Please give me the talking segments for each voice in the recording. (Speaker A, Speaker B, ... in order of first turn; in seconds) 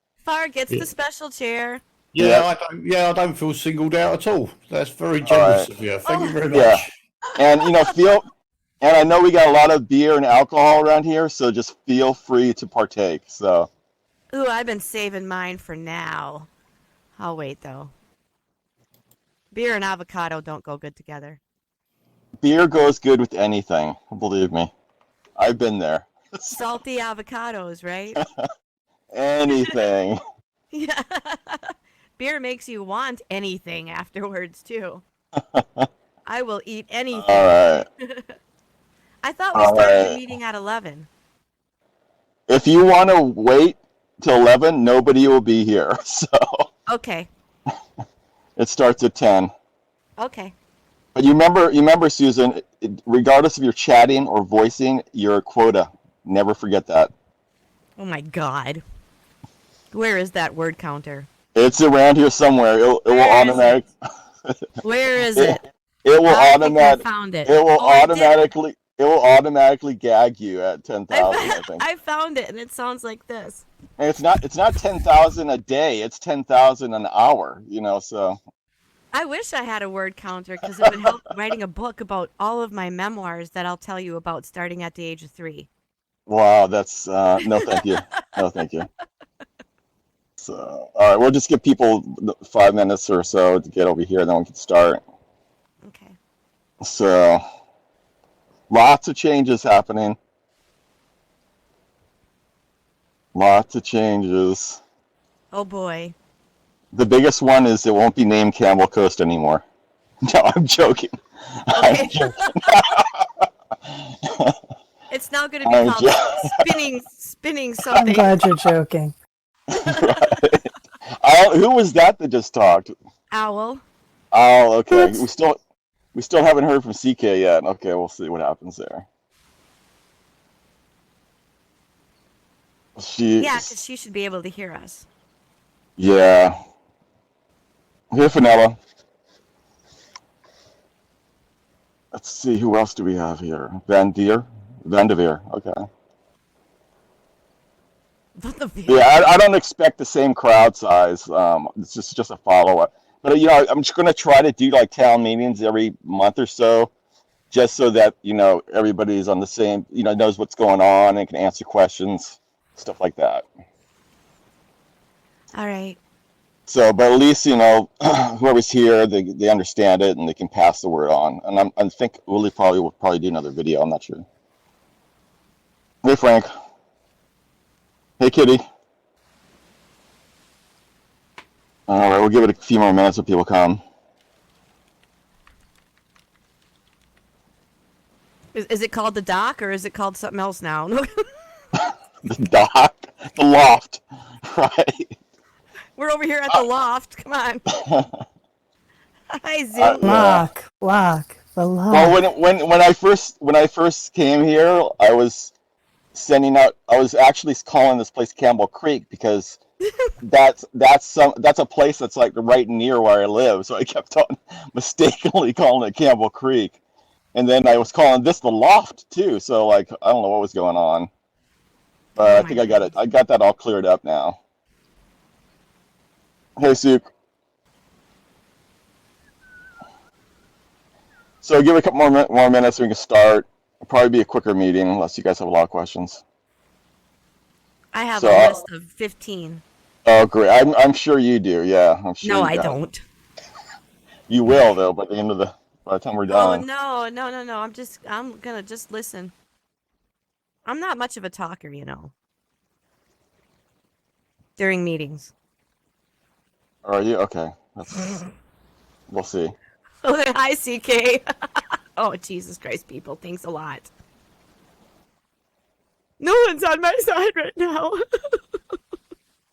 Speaker A: 0.2-1.8, 6.0-6.4, 14.3-16.5, 17.2-17.9, 19.5-21.4, 26.5-28.2, 30.7-35.0, 36.3-38.3, 39.2-41.1, 46.9-47.3, 50.2-50.5, 58.0-58.8, 59.9-61.3, 63.1-63.8, 64.8-65.7, 66.2-68.5, 71.1-73.7, 79.1-85.7, 87.6-87.9, 95.8-96.2, 105.5-106.2, 111.8-112.8, 115.1-118.4, 119.9-120.4, 123.3-123.8, 124.9-125.2, 133.4-135.1, 148.4-149.4, 165.6-166.0, 188.6-191.1, 196.0-197.7, 199.3-200.1, 222.2-222.9, 237.9-239.6, 242.2-243.0, 246.3-249.3, 250.7-252.1, 254.6-255.3, 260.0-261.2, 262.0-263.9, 266.2-268.4
Speaker B: 2.1-7.0
Speaker C: 2.2-2.5, 5.2-5.7, 6.5-8.2, 8.8-13.7, 22.4-24.7, 25.4-26.6, 29.1-30.2, 35.5-35.9, 37.1-37.9, 39.5-40.2, 42.5-46.7, 48.6-49.5, 51.1-57.1, 61.5-63.9, 65.3-71.8, 74.0-78.4, 80.8-81.1, 86.3-88.9, 90.4-95.0, 96.8-97.4, 98.7-100.2, 103.3-104.8, 106.9-109.6, 110.3-111.2, 111.7-113.5, 114.3-114.5, 115.6-116.3, 119.7-120.7, 121.2-122.9, 124.3-125.6, 126.2-129.1, 133.0-133.8, 136.0-136.6, 138.1-138.8, 142.1-145.8, 148.9-156.9, 157.5-163.5, 166.7-174.2, 176.0-176.5, 178.2-178.6, 181.9-183.8, 191.8-195.1, 197.8-198.1, 199.8-200.5, 201.9-205.5, 206.1-209.6, 210.2-216.8, 217.3-221.1, 222.2-224.4, 226.6-227.1, 231.4-236.2, 238.1-238.6, 240.1-242.8, 244.3-246.6, 256.9-258.2, 259.1-259.5
Speaker D: 118.0-119.1, 200.0-202.2